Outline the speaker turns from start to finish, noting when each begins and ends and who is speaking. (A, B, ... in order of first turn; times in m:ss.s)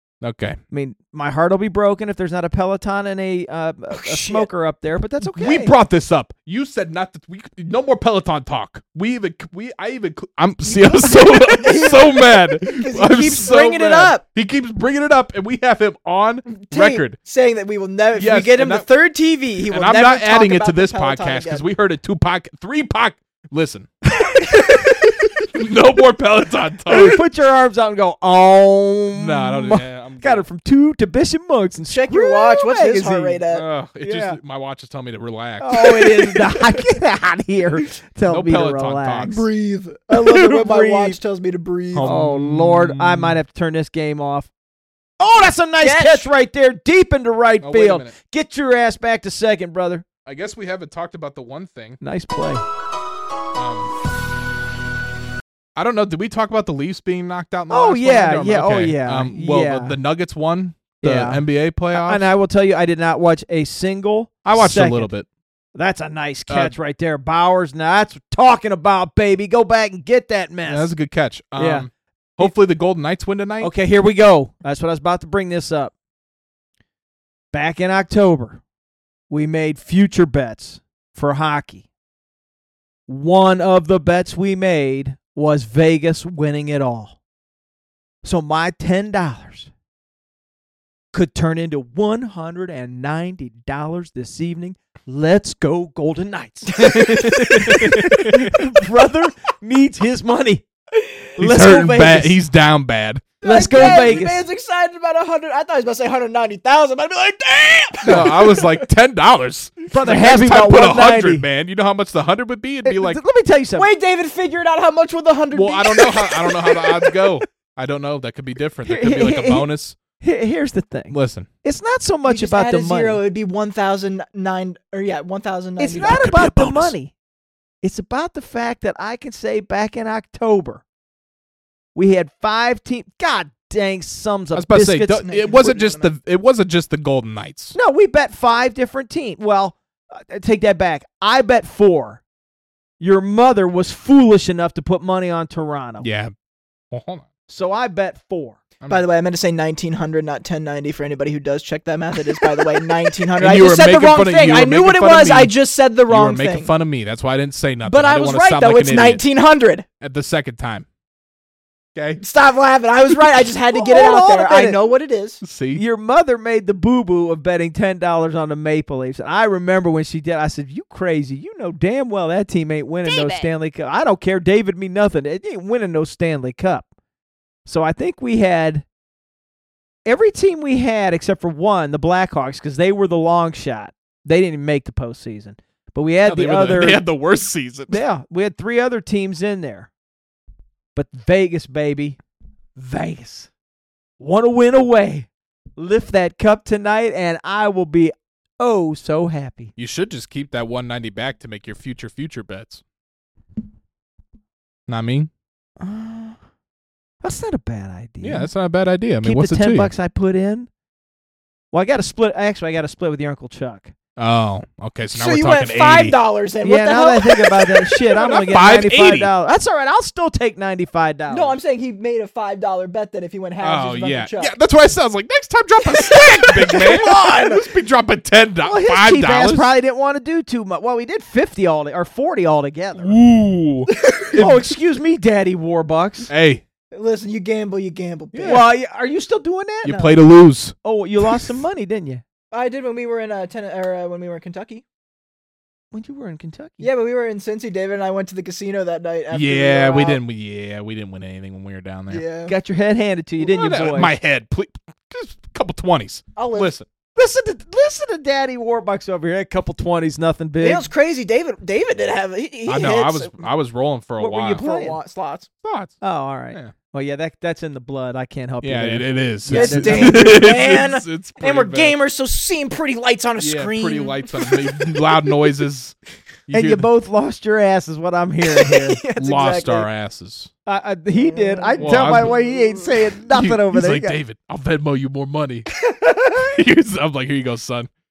0:00.2-0:00.6 A
0:00.7-0:05.7 B
0:03.9-0:04.5 C
0:05.2-0:17.2 A
0:10.6-0:14.2 C
0:16.5-0:21.6 C
0:18.2-0:18.9 A
0:19.6-0:23.9 A
0:24.4-0:24.9 B
0:24.4-0:27.2 A
0:26.9-0:33.4 B
0:29.1-0:30.4 A
0:31.9-0:33.6 C
0:33.5-0:36.1 A
0:34.0-0:34.4 B
0:35.6-0:39.4 B
0:38.2-0:39.4 A
0:39.3-0:42.1 C
0:40.2-0:41.2 B
0:41.9-0:43.4 A
0:42.0-0:44.5 B
0:45.2-0:50.0 B
0:45.8-0:46.3 C
0:47.6-0:48.1 A
0:50.2-0:52.0 A
0:52.0-0:52.6 B
0:53.5-0:53.9 A
0:55.8-1:02.3 A
0:57.7-1:00.0 B
1:01.0-1:05.1 B
1:04.5-1:05.3 A
1:05.7-1:10.9 B
1:06.5-1:06.7 A
1:10.6-1:13.7 A
1:11.6-1:11.9 B
1:13.6-1:15.9 B
1:17.5-1:18.6 B
1:19.3-1:21.9 B
1:23.1-1:27.2 B
1:28.2-1:29.7 B
1:31.1-1:40.7 B
1:36.8-1:38.5 A
1:41.4-1:42.4 B
1:41.4-1:44.2 A
1:43.4-1:48.8 C
1:43.4-1:44.4 B
1:48.0-1:48.3 B
1:48.0-1:53.2 A
1:49.9-1:51.4 B
1:52.8-1:53.9 B
1:53.8-1:57.2 C
1:55.5-2:00.0 A
1:58.8-2:03.2 B
2:01.1-2:01.5 A
2:02.2-2:06.4 C
2:05.8-2:07.1 B
2:05.9-2:06.9 A
2:07.8-2:10.8 B
2:11.9-2:15.2 B
2:14.5-2:17.7 A
2:15.2-2:16.1 C
2:17.7-2:22.2 B
2:23.0-2:26.0 B
2:26.0-2:26.3 A
2:26.9-2:27.3 A
2:27.5-2:28.6 B
2:28.9-2:36.7 C
2:33.4-2:35.5 A
2:36.1-2:39.2 A
2:37.8-2:39.8 C
2:40.0-2:40.8 A
2:41.9-2:42.2 A
2:42.2-2:45.4 C
2:43.7-2:44.8 B
2:45.4-2:45.8 A
2:45.7-2:56.9 B
2:53.0-2:53.5 C
2:57.6-2:58.8 B
3:00.0-3:07.0 B
3:06.2-3:08.0 A
3:07.9-3:09.9 B
3:10.9-3:12.2 B
3:12.8-3:13.5 B
3:14.2-3:19.7 B
3:19.8-3:22.8 A
3:24.9-3:25.3 A
3:25.8-3:26.4 B
3:27.2-3:28.5 B
3:28.2-3:29.9 A
3:29.2-3:30.7 B
3:31.7-3:33.9 B
3:34.2-3:36.2 A
3:35.1-3:38.0 C
3:36.6-3:41.6 B
3:38.1-3:39.3 A
3:41.3-3:44.6 C
3:43.6-3:49.7 A
3:45.9-3:47.6 C
3:48.6-3:53.2 B
3:53.0-3:54.7 A
3:53.9-3:54.4 C
3:54.3-3:56.3 B
3:56.3-3:56.6 A
3:56.9-3:58.7 C
3:58.3-3:58.6 A
3:58.4-4:00.1 B
3:59.8-4:00.7 A
4:00.8-4:02.2 B
4:02.5-4:04.8 C
4:05.9-4:06.9 B
4:06.8-4:10.2 C
4:09.3-4:12.2 A
4:12.1-4:12.5 C
4:12.4-4:14.2 B
4:13.4-4:16.9 A
4:16.4-4:16.7 C
4:17.1-4:20.9 B
4:20.6-4:23.4 C
4:22.7-4:24.6 A
4:24.2-4:25.0 B
4:24.2-4:25.5 C
4:25.6-4:26.0 A
4:26.0-4:30.3 B
4:28.6-4:32.0 A
4:29.5-4:35.4 C
4:33.4-4:35.9 A
4:36.5-4:36.9 A
4:36.5-4:39.0 B
4:38.5-4:39.9 C
4:39.2-4:40.5 A
4:40.6-4:44.2 B
4:41.1-4:42.9 C
4:41.8-4:42.3 A
4:43.2-4:45.7 A
4:46.5-4:47.9 A